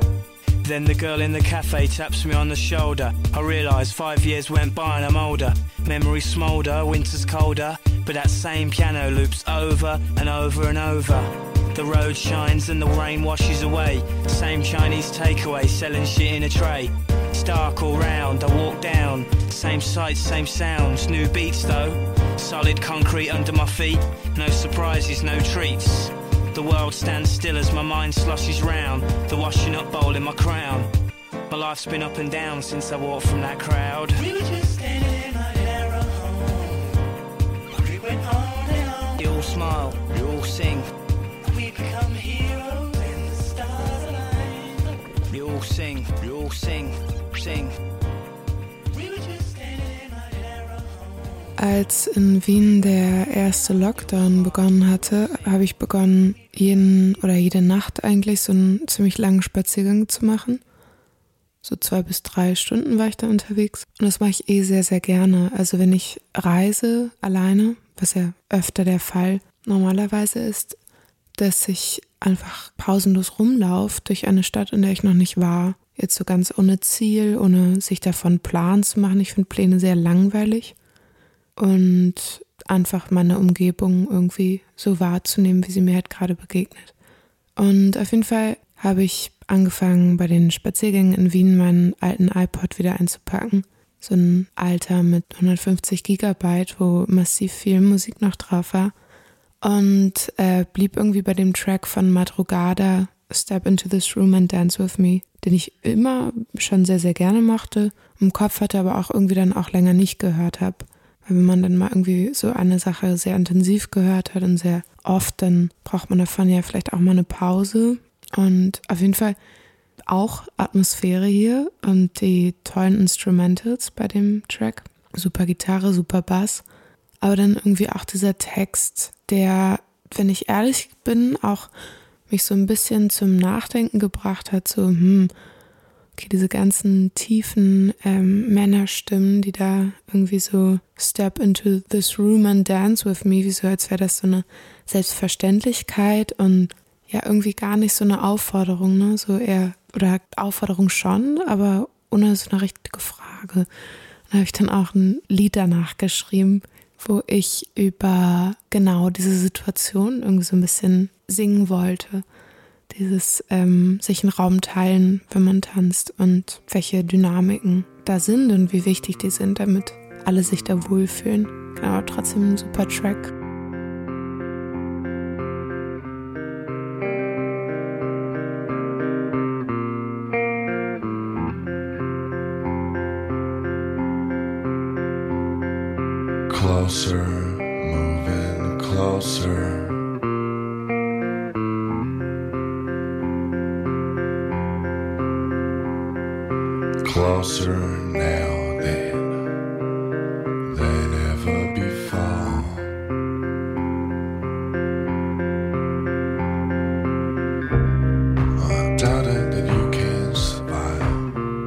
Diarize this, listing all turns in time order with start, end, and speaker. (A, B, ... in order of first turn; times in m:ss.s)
0:00.6-0:30.9 A
0:31.5-0:34.2 A
0:34.1-0:37.0 B
0:37.8-0:39.2 B
0:39.2-0:40.9 A
0:41.5-0:45.0 B
0:45.3-0:47.8 A
0:48.9-0:51.6 B
0:51.6-1:00.6 C
0:53.2-0:57.1 B
1:01.6-1:10.8 C
1:11.4-1:20.8 C
1:21.6-1:26.9 C
1:27.6-1:38.9 C
1:39.6-1:59.4 C
2:00.1-2:06.6 C
2:07.2-2:11.7 C
2:12.3-2:15.3 C
2:16.2-2:33.7 C
2:34.3-2:42.2 C
2:42.9-2:53.3 C
3:06.5-3:10.0 D
3:17.0-3:19.5 D
3:20.6-3:22.9 D
3:28.6-3:31.4 D